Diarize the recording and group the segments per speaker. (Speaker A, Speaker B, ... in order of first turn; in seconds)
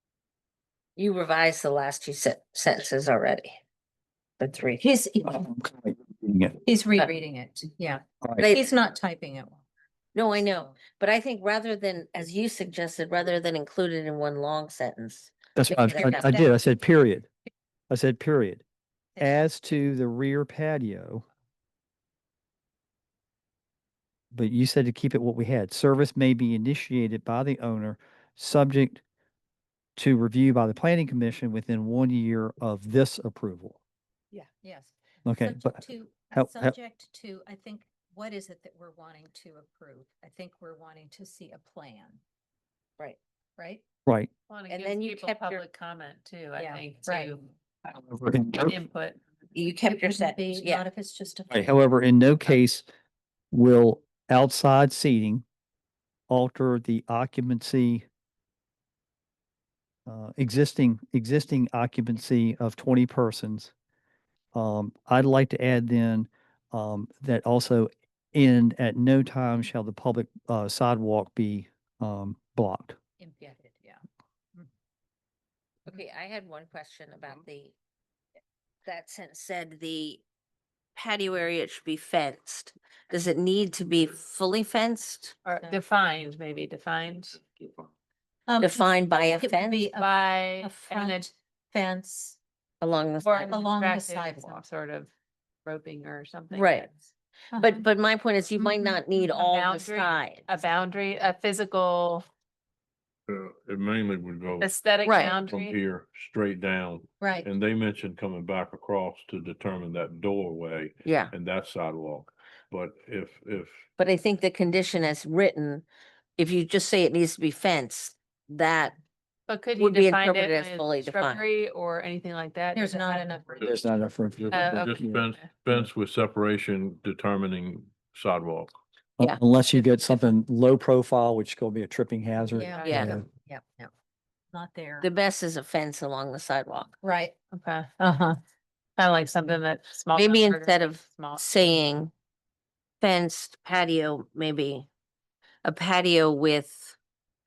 Speaker A: 1.0-3.6, 4.4-4.8, 8.4-8.7, 10.1-16.5, 44.7-45.6, 49.5-50.8, 75.9-77.7, 78.8-80.2, 80.9-85.3, 88.6-89.9, 92.8-93.5, 96.5-96.9, 97.5-100.5, 105.0-105.3, 111.0-111.3, 114.0-115.8, 116.4-119.0, 119.8-121.5, 132.8-133.2, 135.0-136.9, 140.1-142.1, 143.0-144.9, 145.6-146.9
Speaker B: 4.8-5.4, 6.6-9.6, 10.3-10.8, 15.9-16.2, 34.6-42.2, 43.6-43.8, 46.6-47.3, 49.9-51.6, 73.2-74.0, 88.5-92.4, 93.5-94.6, 97.5-97.8, 98.6-99.0, 107.2-107.5, 122.7-123.7, 132.5-133.9, 134.5-135.1, 137.0-137.3, 138.0-138.3
Speaker C: 5.2-6.6, 15.6-17.3, 17.9-18.6, 19.2-21.2, 24.3-29.0, 30.0-33.8, 35.2-36.7, 47.9-48.8, 51.5-52.8, 53.5-55.4, 56.3-58.0, 60.0-63.7, 64.5-73.0, 123.6-125.8, 129.2-133.2
Speaker D: 44.5-47.5, 48.6-49.2, 85.4-87.4, 90.0-91.3, 93.2-95.1, 95.6-96.9, 99.2-102.2, 104.6-105.8, 119.5-123.4, 124.5-125.5, 132.6-133.1, 137.5-138.0, 139.0-141.8
Speaker E: 103.3-104.7, 105.2-113.9, 124.4-128.7